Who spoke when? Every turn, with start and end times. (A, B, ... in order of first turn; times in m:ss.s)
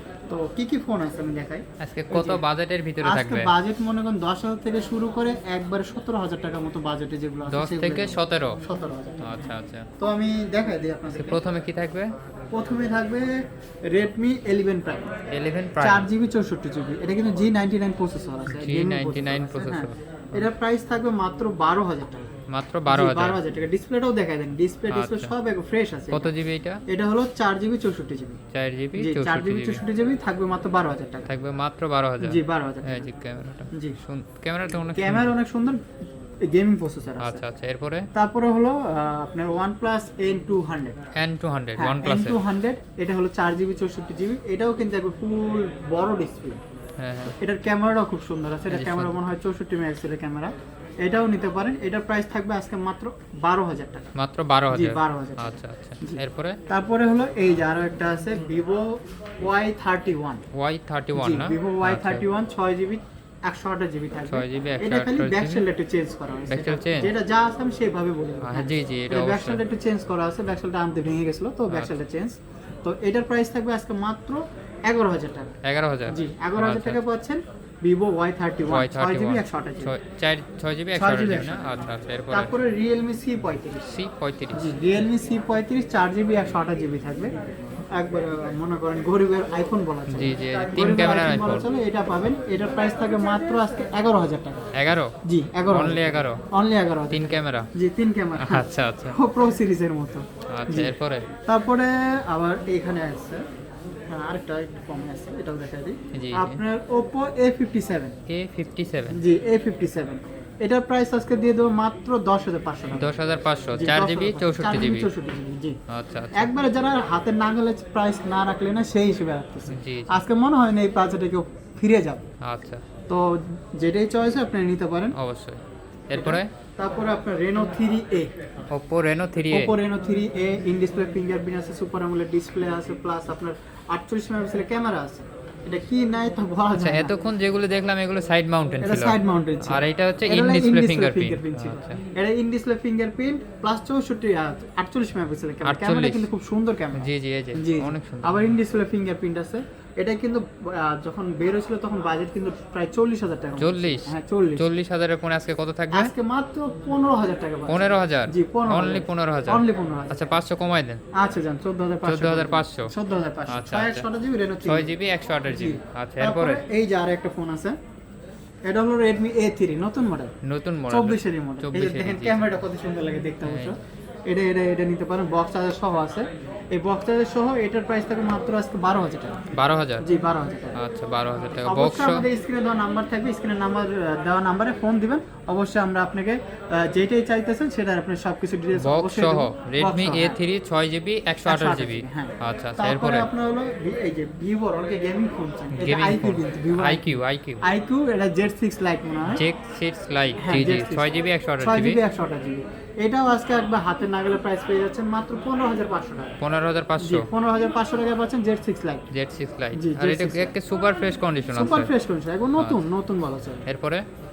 0:00.3-0:02.4 A
0:01.8-0:03.5 B
0:03.0-0:11.4 A
0:07.5-0:08.6 B
0:09.2-0:09.9 B
0:11.1-0:12.1 B
0:12.5-0:15.1 A
0:15.3-0:16.1 B
0:15.8-0:22.3 A
0:18.5-0:20.4 B
0:22.5-0:23.4 B
0:22.9-0:26.3 A
0:24.9-0:25.3 B
0:26.1-0:26.8 B
0:26.9-0:28.4 A
0:28.5-0:29.8 B
0:29.0-0:31.3 A
0:31.3-0:35.3 B
0:32.2-0:33.1 A
0:33.7-0:34.0 A
0:35.0-0:35.8 A
0:36.4-0:37.4 A
0:37.2-0:38.1 B
0:38.1-0:41.0 A
0:41.2-0:42.4 B
0:41.8-0:46.6 A
0:47.0-0:47.4 B
0:47.4-0:54.1 A
0:48.7-0:49.2 B
0:54.2-0:56.6 B
0:54.7-1:00.4 A
1:00.5-1:02.2 B
1:01.2-1:15.5 A
1:04.3-1:05.6 B
1:06.5-1:07.1 B
1:08.4-1:09.6 B
1:15.6-1:17.0 B
1:16.1-1:19.9 A
1:18.7-1:22.5 B
1:20.9-1:21.7 A
1:22.3-1:24.0 A
1:23.9-1:24.7 B
1:24.5-1:27.3 A
1:27.9-1:34.7 A
1:30.1-1:31.7 B
1:34.7-1:35.1 B
1:35.2-1:36.0 A
1:35.7-1:36.4 B
1:36.5-1:40.9 A
1:37.1-1:37.7 B
1:38.3-1:39.2 B
1:40.5-1:41.3 B
1:41.5-1:43.4 A
1:44.1-1:48.1 A
1:46.1-1:46.6 B
1:48.3-1:49.2 B
1:49.1-1:53.2 A
1:53.0-1:55.1 B
1:53.7-1:55.8 A
1:55.9-1:56.5 B
1:56.3-2:02.3 A
1:59.7-2:00.2 B
2:02.4-2:02.8 B
2:03.1-2:05.2 A
2:05.2-2:06.5 B
2:06.1-2:08.4 A
2:08.7-2:09.7 B
2:09.5-2:17.1 A
2:16.7-2:22.0 B
2:18.8-2:34.7 A
2:25.6-2:26.3 B
2:26.9-2:28.4 B
2:33.6-2:36.1 B
2:35.9-2:40.2 A
2:37.7-2:41.0 B
2:41.1-2:44.9 A
2:42.0-2:42.9 B
2:43.5-2:44.1 B
2:44.6-2:46.6 B
2:45.5-2:47.8 A
2:48.7-2:50.3 A
2:50.4-2:52.4 B
2:50.9-3:00.8 A
2:53.4-2:53.7 B
2:59.5-3:00.1 B
3:00.8-3:02.3 B
3:01.6-3:10.4 A
3:08.8-3:13.3 B
3:11.4-3:17.0 A
3:15.7-3:17.6 B
3:17.6-3:19.4 A
3:19.3-3:22.0 B
3:20.4-3:26.4 A
3:26.4-3:27.3 B
3:27.0-3:29.1 A
3:29.1-3:31.9 B
3:29.8-3:30.5 A
3:31.5-3:33.6 A
3:33.7-3:34.0 B